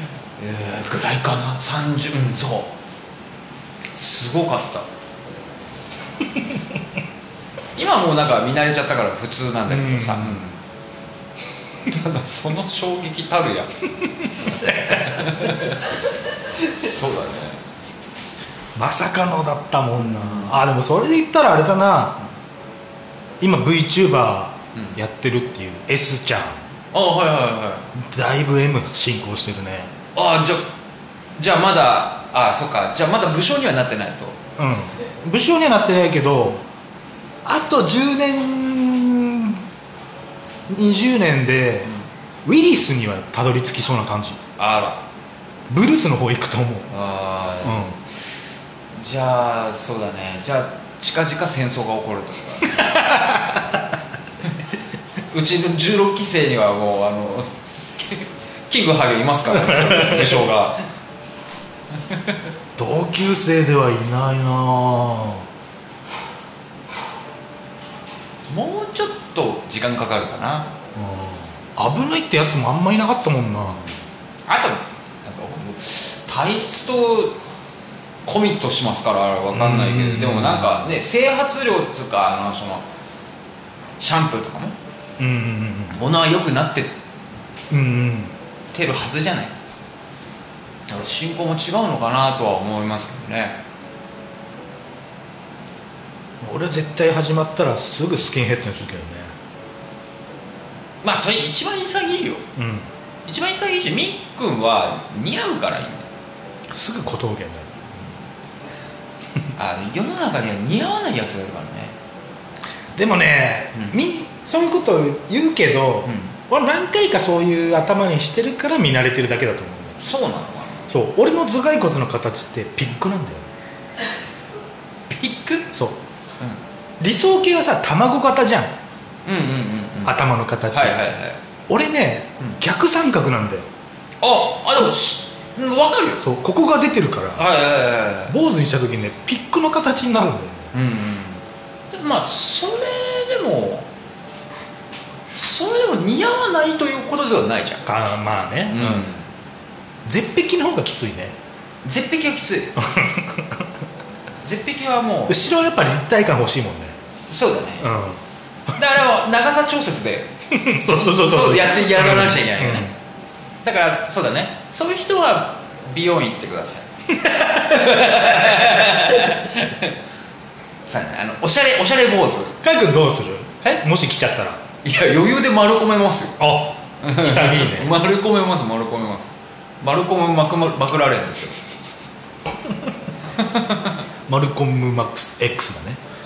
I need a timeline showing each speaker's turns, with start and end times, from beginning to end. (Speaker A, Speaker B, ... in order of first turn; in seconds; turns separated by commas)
Speaker A: 0.4-2.7, Speaker A: 3.9-4.9, Speaker A: 7.8-10.6, Speaker B: 9.7-10.4, Speaker A: 11.8-13.7, Speaker A: 14.4-15.9, Speaker A: 16.7-17.8, Speaker B: 18.8-22.2, Speaker A: 20.0-20.6, Speaker B: 23.4-26.6, Speaker A: 26.9-27.9, Speaker B: 27.9-29.9, Speaker A: 30.1-30.7, Speaker A: 31.4-34.4, Speaker B: 34.6-36.6, Speaker B: 37.4-39.6, Speaker B: 40.7-41.9, Speaker B: 42.4-44.4, Speaker A: 44.6-45.0, Speaker B: 45.7-46.9, Speaker A: 46.9-48.0, Speaker B: 47.6-48.0, Speaker A: 48.9-53.8, Speaker A: 55.3-60.8, Speaker B: 59.6-60.4, Speaker A: 62.1-62.4, Speaker B: 62.8-65.5, Speaker A: 68.5-70.7, Speaker B: 70.9-73.8, Speaker A: 74.5-77.4, Speaker A: 78.2-82.8, Speaker B: 79.5-80.7, Speaker A: 84.0-84.8, Speaker B: 85.2-86.0, Speaker A: 85.9-87.0, Speaker B: 87.7-88.3, Speaker A: 88.7-89.5, Speaker A: 90.9-93.6, Speaker B: 96.4-99.3, Speaker A: 101.0-102.4, Speaker B: 102.5-102.9, Speaker A: 103.2-106.1, Speaker B: 106.7-107.8, Speaker A: 109.5-112.0, Speaker B: 113.0-120.0, Speaker A: 116.0-116.3, Speaker A: 120.0-120.9, Speaker B: 120.9-123.5, Speaker A: 125.1-125.7, Speaker B: 125.7-126.0, Speaker B: 127.0-128.7, Speaker A: 129.2-131.4, Speaker B: 130.0-131.0, Speaker B: 131.7-133.7, Speaker A: 134.2-136.2, Speaker B: 136.2-137.5, Speaker A: 137.3-138.4, Speaker B: 138.3-140.7, Speaker A: 140.7-143.9, Speaker A: 145.3-147.8, Speaker B: 147.8-149.1, Speaker A: 148.7-149.3, Speaker B: 150.0-151.3, Speaker A: 151.8-152.8, Speaker B: 152.8-153.6, Speaker A: 154.4-155.4, Speaker B: 155.3-156.9, Speaker A: 157.3-157.9, Speaker B: 157.8-158.2, Speaker A: 158.7-160.3, Speaker B: 160.5-162.9, Speaker A: 161.2-162.9, Speaker A: 163.6-166.9, Speaker B: 167.2-167.9, Speaker A: 167.4-169.9, Speaker A: 170.8-172.6, Speaker B: 172.6-174.6, Speaker A: 174.8-176.5, Speaker B: 176.4-177.9, Speaker A: 177.0-181.6, Speaker A: 183.4-184.0, Speaker B: 184.3-186.0